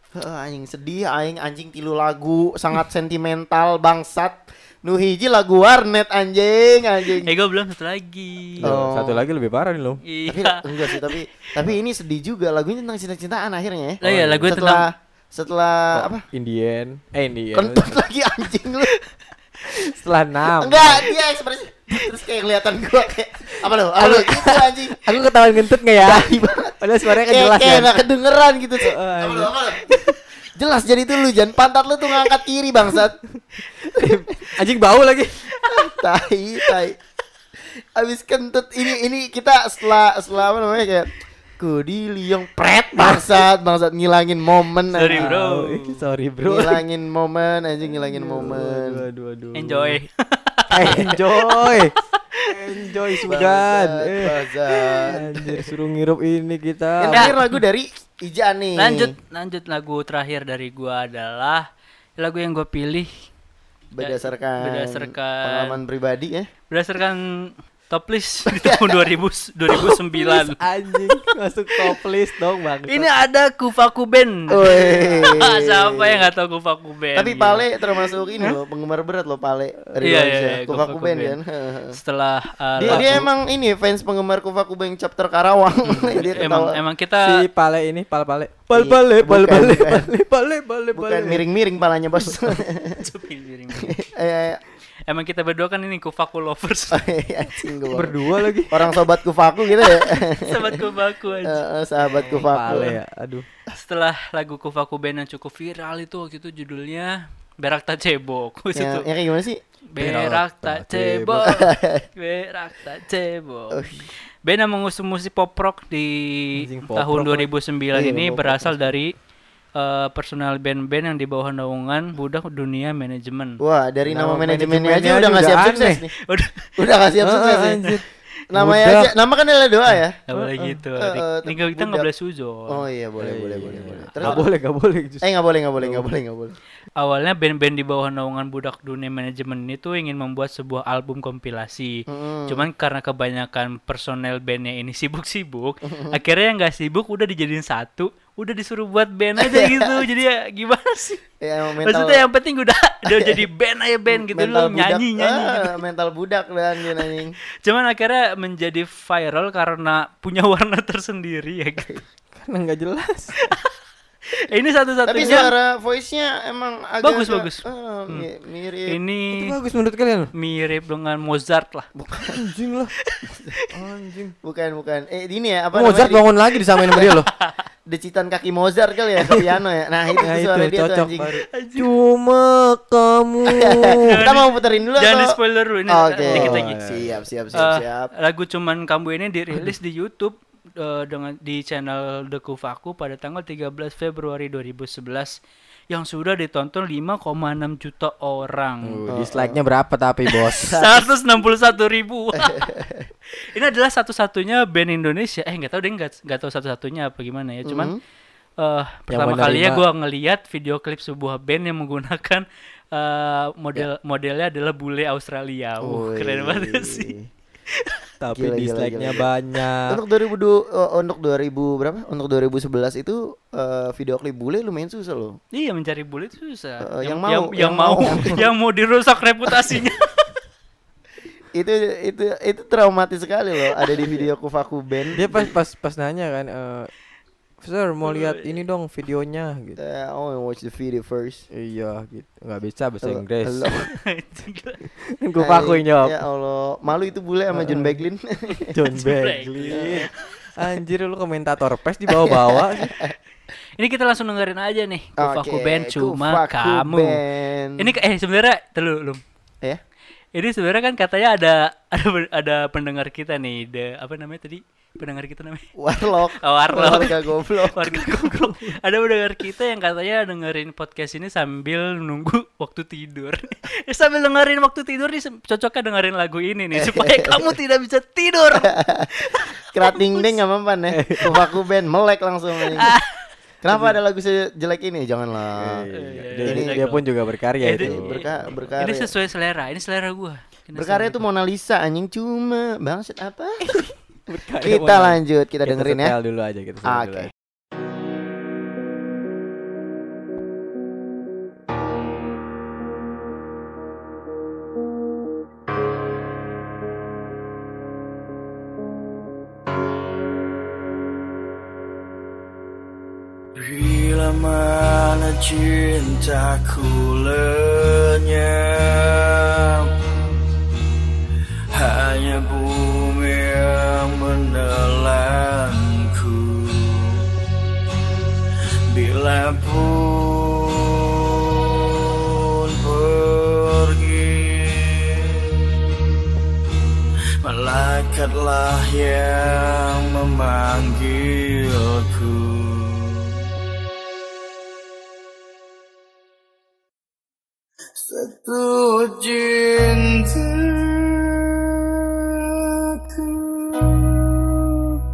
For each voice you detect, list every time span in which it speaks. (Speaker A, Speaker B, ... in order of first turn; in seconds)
Speaker A: 0.1-7.3, 8.6-9.2, 10.3-16.2, 17.5-18.9, 20.6-25.3, 25.9-30.0, 30.5-33.2, 33.9-34.5, 35.5-37.0, 37.7-45.3, 46.5-49.0, 53.2-55.7, 57.0-59.1, 63.9-66.5, 68.5-69.1, 74.5-76.3, 77.1-82.0, 82.8-86.8, 88.7-90.1, 90.9-93.0, 93.8-94.6, 96.9-100.8, 101.4-102.9, 108.7-109.6, 111.5-112.0, 113.7-114.1, 117.9-118.6, 123.6-126.1, 126.8-127.8, 128.5-130.2, 131.0-132.1, 132.7-134.4, 135.2-136.6, 142.1-142.7, 145.8-146.2, 149.4-150.1, 151.4-152.2, 153.1-153.4, 154.1-157.3, 165.1-169.0, 171.9-172.4, 173.3-173.5, 174.4-176.2, 177.9-181.3, 183.5-185.3, 185.9-188.1, 199.1-199.6, 200.7-201.0, 202.4-203.1, 207.6-208.0, 216.2-217.2, 218.3-219.3, 219.9-225.4, 226.8-228.4, 231.5-235.5, 239.8-241.4, 243.0-243.9, 245.4-248.7, 249.7-250.1, 252.1-253.1, 255.2-257.9, 265.8-268.1, 276.7-277.5, 278.5-279.1, 279.7-283.0, 283.6-285.9, 286.4-286.8, 287.8-289.1, 290.8-293.8, 294.6-296.1, 296.8-297.3
Speaker B: 7.2-8.7, 10.1-11.4, 14.0-14.8, 44.9-45.9, 49.5-51.7, 57.1-57.5, 58.8-61.6, 62.2-63.2, 64.0-65.8, 66.7-70.6, 72.9-77.6, 80.0-81.4, 81.9-83.2, 85.9-87.4, 93.0-94.0, 95.1-97.0, 100.3-101.6, 102.3-102.9, 103.7-109.1, 109.9-113.8, 114.4-119.1, 119.8-123.6, 126.3-126.6, 130.3-132.8, 137.0-151.2, 151.8-155.7, 157.6-161.9, 164.4-165.5, 167.0-168.2, 168.9-169.5, 170.3-171.9, 181.5-181.9, 184.0-184.5, 185.0-186.7, 187.6-195.4, 195.9-199.0, 200.5-202.7, 203.4-207.9, 208.6-217.1, 225.5-230.3, 238.1-238.6, 244.1-244.8, 248.9-250.0, 253.8-257.2, 257.8-259.2, 260.3-265.7, 266.4-267.2, 267.7-278.7, 279.2-280.3, 282.8-283.2, 285.9-287.0, 287.6-288.2, 288.8-291.2
Speaker C: 8.6-10.0, 14.0-14.6, 15.9-18.0, 19.6-21.1, 24.0-28.0, 28.8-30.1, 33.3-35.8, 43.0-43.4, 45.1-46.8, 47.9-50.0, 50.7-57.4, 70.5-73.1, 82.8-83.3, 87.2-91.4, 97.9-98.8, 102.3-103.5, 110.0-111.5, 116.6-117.5, 124.1-126.0, 127.2-129.1, 130.3-130.8, 133.2-136.1, 162.3-163.5, 169.3-170.3, 172.3-172.9, 173.7-174.3, 175.7-177.3, 180.2-184.2, 186.3-187.2, 198.8-200.8, 209.1-209.8, 215.8-216.2, 218.2-220.0, 235.1-236.9, 237.6-239.8, 241.5-243.7, 245.1-246.2, 247.5-248.0, 248.7-253.0, 280.9-281.4, 285.6-288.5, 293.6-297.3
Speaker D: 313.6-319.9, 321.7-327.3, 328.9-335.5, 337.4-343.4, 348.0-354.8